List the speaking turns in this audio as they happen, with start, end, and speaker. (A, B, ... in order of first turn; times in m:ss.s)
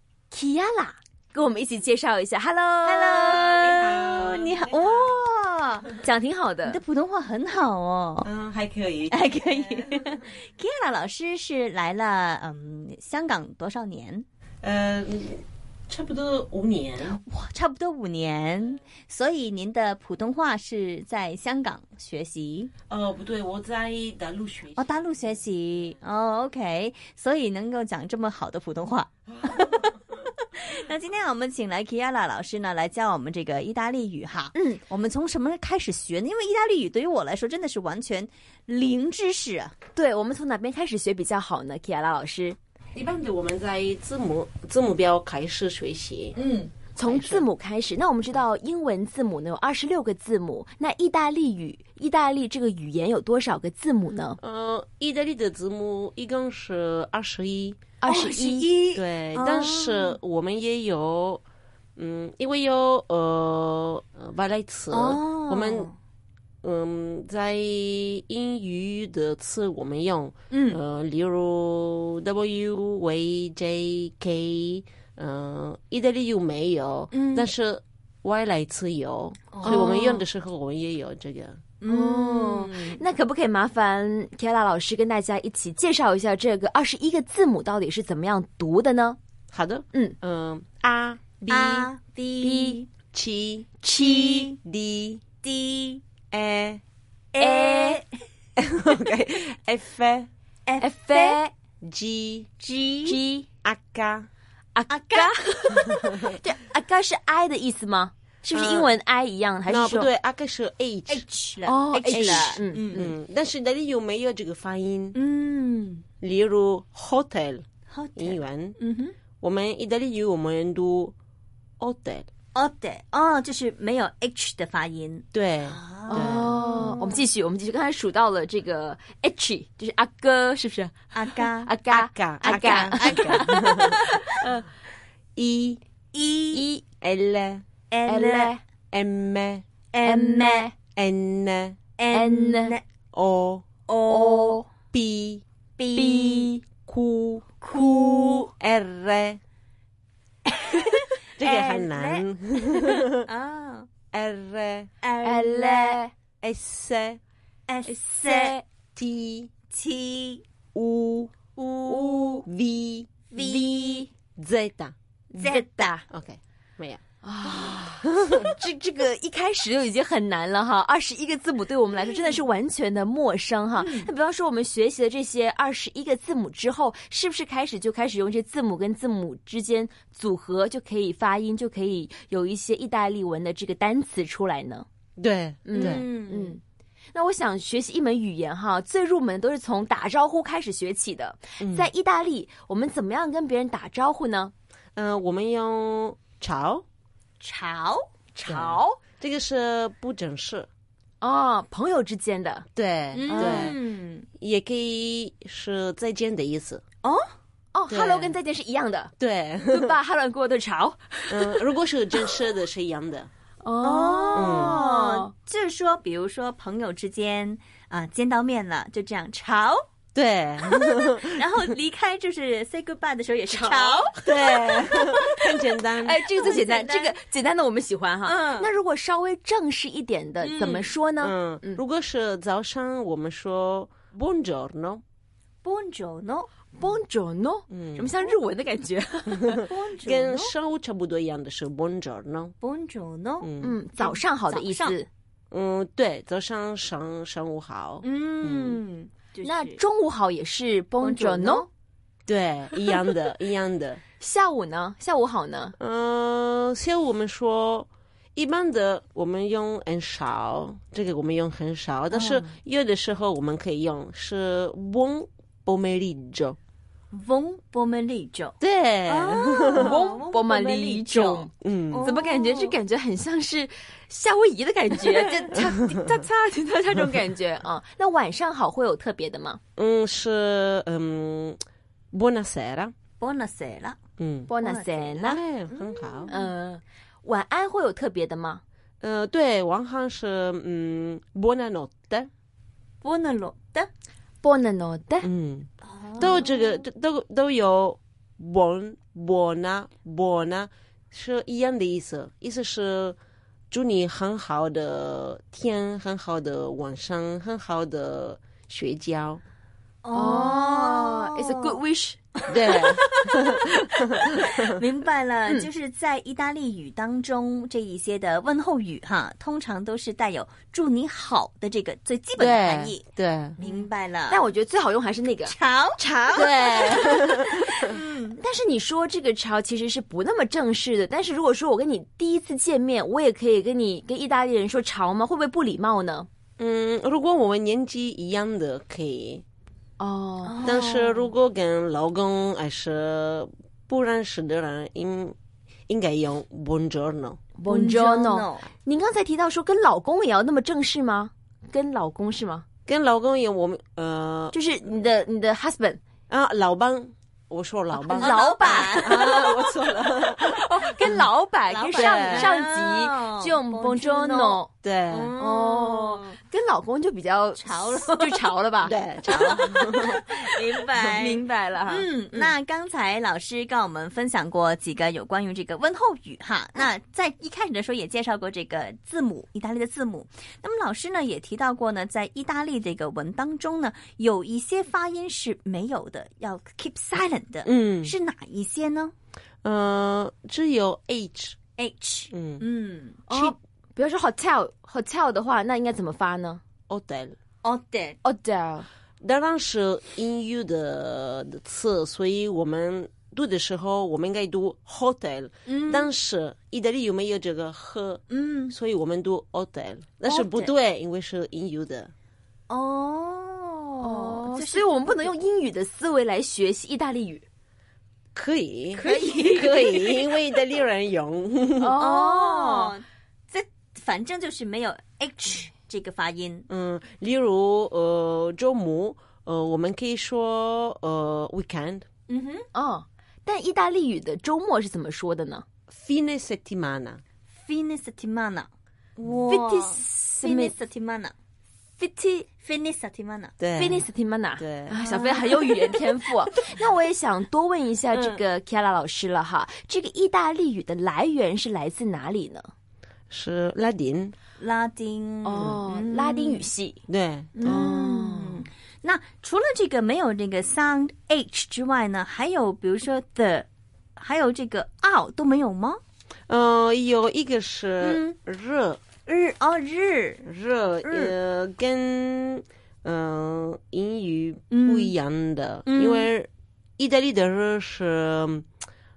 0:00.3-0:03.4 A
0:02.8-0:06.0 B
0:03.3-0:05.2 C
0:06.0-0:06.8 A
0:06.6-0:08.3 B
0:08.2-0:10.1 C
0:09.1-0:14.2 B
0:14.6-0:17.2 C
0:17.0-0:22.7 B
0:22.9-0:24.8 C
0:24.8-0:29.9 B
0:30.5-0:39.8 B
0:34.5-0:34.8 A
0:40.0-0:42.6 A
0:42.9-0:46.4 C
0:46.4-0:46.7 B
0:47.0-0:54.4 A
0:47.0-0:47.4 C
0:54.4-0:57.8 C
0:58.0-0:58.7 A
0:58.0-1:00.2 B
0:58.9-1:01.4 C
1:02.0-1:05.9 C
1:04.9-1:05.9 B
1:06.6-1:21.6 C
1:10.5-1:10.8 B
1:17.1-1:17.5 B
1:19.5-1:19.9 B
1:19.6-1:20.2 A
1:21.8-1:23.0 B
1:21.8-1:29.2 A
1:29.5-1:31.9 C
1:31.5-1:32.9 B
1:32.4-1:32.8 A
1:33.1-1:35.2 C
1:33.9-1:34.6 B
1:35.4-1:36.0 B
1:36.3-1:36.8 C
1:37.3-1:38.1 B
1:37.4-1:38.0 A
1:38.6-1:40.3 C
1:40.6-1:41.4 B
1:40.8-1:41.5 A
1:41.8-1:42.5 C
1:42.6-1:43.2 B
1:43.0-1:43.4 A
1:43.6-1:44.3 C
1:44.7-1:50.1 A
1:44.9-1:45.5 B
1:45.7-1:46.4 C
1:48.5-1:48.9 C
1:49.7-1:51.2 C
1:51.1-1:53.1 B
1:51.6-1:53.1 A
1:52.1-1:55.2 C
1:55.1-1:56.0 B
1:56.2-1:58.8 C
1:57.9-1:59.1 B
1:59.4-2:01.1 C
2:01.8-2:02.3 C
2:02.5-2:07.2 B
2:05.3-2:06.6 C
2:06.1-2:14.6 A
2:11.1-2:11.7 B
2:11.9-2:14.0 C
2:12.4-2:14.2 B
2:15.4-2:15.8 C
2:16.1-2:16.6 B
2:16.5-2:16.8 A
2:17.0-2:17.6 C
2:17.9-2:18.5 B
2:18.0-2:18.6 A
2:18.9-2:19.6 C
2:19.9-2:20.7 B
2:20.0-2:20.7 A
2:20.9-2:21.8 C
2:22.0-2:22.8 B
2:22.1-2:22.8 A
2:23.1-2:23.6 C
2:23.9-2:24.6 B
2:24.0-2:24.6 A
2:24.9-2:25.4 C
2:25.8-2:26.5 B
2:25.9-2:26.6 A
2:26.8-2:29.4 C
2:27.6-2:28.5 B
2:30.5-2:33.9 B
2:31.4-2:33.3 C
2:34.1-2:34.9 C
2:35.0-2:36.0 B
2:35.2-2:36.1 A
2:36.4-2:37.2 C
2:37.7-2:38.6 B
2:37.8-2:38.6 A
2:39.0-2:39.5 C
2:39.7-2:40.4 B
2:40.7-2:41.3 C
2:41.6-2:42.3 B
2:41.9-2:43.1 C
2:41.9-2:42.4 A
2:43.3-2:44.1 B
2:43.4-2:44.1 A
2:44.4-2:44.9 C
2:45.3-2:46.0 A
2:45.4-2:45.9 B
2:46.1-2:47.0 C
2:47.2-3:04.8 A
2:47.5-2:47.8 B
2:47.6-2:48.6 C
2:53.7-2:54.1 B
3:05.2-3:06.0 C
3:05.6-3:06.6 A
3:05.7-3:06.6 B
3:07.1-3:14.5 A
3:11.6-3:11.9 C
3:15.0-3:16.8 C
3:17.4-3:18.1 B
3:18.3-3:19.0 A
3:18.5-3:20.7 C
3:21.2-3:22.6 A
3:22.8-3:23.8 C
3:23.1-3:24.3 B
3:23.3-3:23.8 A
3:24.4-3:26.8 C
3:27.7-3:31.6 A
3:27.9-3:28.3 C
3:29.2-3:30.0 C
3:31.3-3:33.3 C
3:33.6-3:35.3 A
3:33.8-3:39.8 B
3:34.3-3:34.8 C
3:40.1-3:41.4 C
3:40.6-3:44.2 B
3:43.5-3:45.4 A
3:44.2-3:46.2 C
3:45.0-3:45.5 B
3:46.0-3:51.8 A
3:46.1-3:47.2 B
3:48.2-3:48.7 B
3:50.4-3:50.9 B
3:51.2-3:55.0 C
3:55.6-3:56.5 B
3:56.8-3:59.6 A
3:57.7-3:58.1 C
3:59.3-4:02.5 C
3:59.7-4:00.5 B
4:02.6-4:03.5 B
4:03.4-4:03.8 C
4:03.6-4:05.1 A
4:04.0-4:05.0 B
4:05.5-4:08.8 C
4:08.0-4:09.8 B
4:09.4-4:11.6 A
4:11.0-4:11.7 B
4:12.3-4:14.0 C
4:14.2-4:15.7 A
4:15.8-4:26.6 C
4:22.1-4:22.5 B
4:27.1-4:32.8 B
4:28.6-4:30.0 C
4:29.8-4:31.5 A
4:31.6-4:32.0 C
4:32.0-4:39.6 A
4:39.8-4:41.6 C
4:42.1-4:42.9 C
4:43.2-4:44.0 B
4:44.2-4:44.5 C
4:44.5-4:45.4 A
4:44.6-4:46.5 B
4:45.2-4:46.3 C
4:46.3-4:48.6 A
4:49.0-4:52.3 C
4:53.0-4:53.9 B
4:54.4-4:55.3 A
4:55.2-5:03.2 C
4:55.8-4:56.7 B
5:03.7-5:09.4 C
5:10.0-5:11.8 B
5:10.1-5:14.3 A
5:12.5-5:14.6 C
5:14.3-5:23.0 B
5:22.4-5:23.6 C
5:23.6-5:24.4 B
5:23.6-5:27.8 A
5:25.4-5:28.4 B
5:26.3-5:27.7 C
5:28.4-5:36.3 A
5:36.6-5:39.4 C
5:40.0-5:40.6 A
5:40.4-5:41.3 B
5:40.6-5:45.4 C
5:45.9-5:47.4 C
5:47.6-5:52.6 A
5:47.6-5:48.7 B
5:52.9-5:54.6 C
5:54.5-5:56.0 A
5:56.3-6:01.3 C
5:57.9-6:04.7 A
5:58.2-5:59.6 B
6:01.7-6:06.4 B
6:01.9-6:02.5 C
6:04.8-6:05.4 C
6:05.4-6:12.5 A
6:07.6-6:08.5 B
6:08.8-6:10.2 C
6:09.3-6:29.1 B
6:27.6-6:28.1 C
6:29.6-6:31.6 C
6:31.8-6:33.2 B
6:32.3-6:32.6 C
6:33.3-6:36.6 A
6:33.3-6:33.5 C
6:36.9-6:37.4 C
6:37.6-6:38.2 B
6:38.2-6:38.8 A
6:39.2-6:52.1 C
6:45.6-6:46.1 B
6:48.3-6:48.7 B
6:50.2-6:50.7 B
6:52.7-6:55.3 B
6:54.0-6:57.4 A
6:58.3-7:02.0 C
6:59.0-7:00.3 B
6:59.0-6:59.3 A
7:01.8-7:02.9 A
7:02.0-7:06.7 B
7:06.7-7:12.0 C
7:12.3-7:12.7 B
7:12.7-7:15.6 A
7:15.9-7:17.2 C
7:17.5-7:18.7 B
7:19.2-7:19.5 C
7:19.2-7:21.3 B
7:19.5-7:20.7 A
7:22.0-7:22.5 A
7:22.6-7:23.5 B
7:23.6-7:24.0 C
7:23.7-7:32.7 A
7:24.6-7:25.0 C
7:25.0-7:26.3 B
7:28.1-7:28.4 B
7:33.3-7:34.4 C
7:34.6-7:36.7 B
7:35.4-7:37.0 A
7:37.1-7:37.9 C
7:37.6-7:38.6 A
7:37.6-7:46.0 B
7:46.5-7:49.0 C
7:49.2-7:50.4 B
7:50.4-7:58.7 C
7:51.0-7:51.3 B
7:54.7-7:55.1 B
7:55.9-7:56.3 B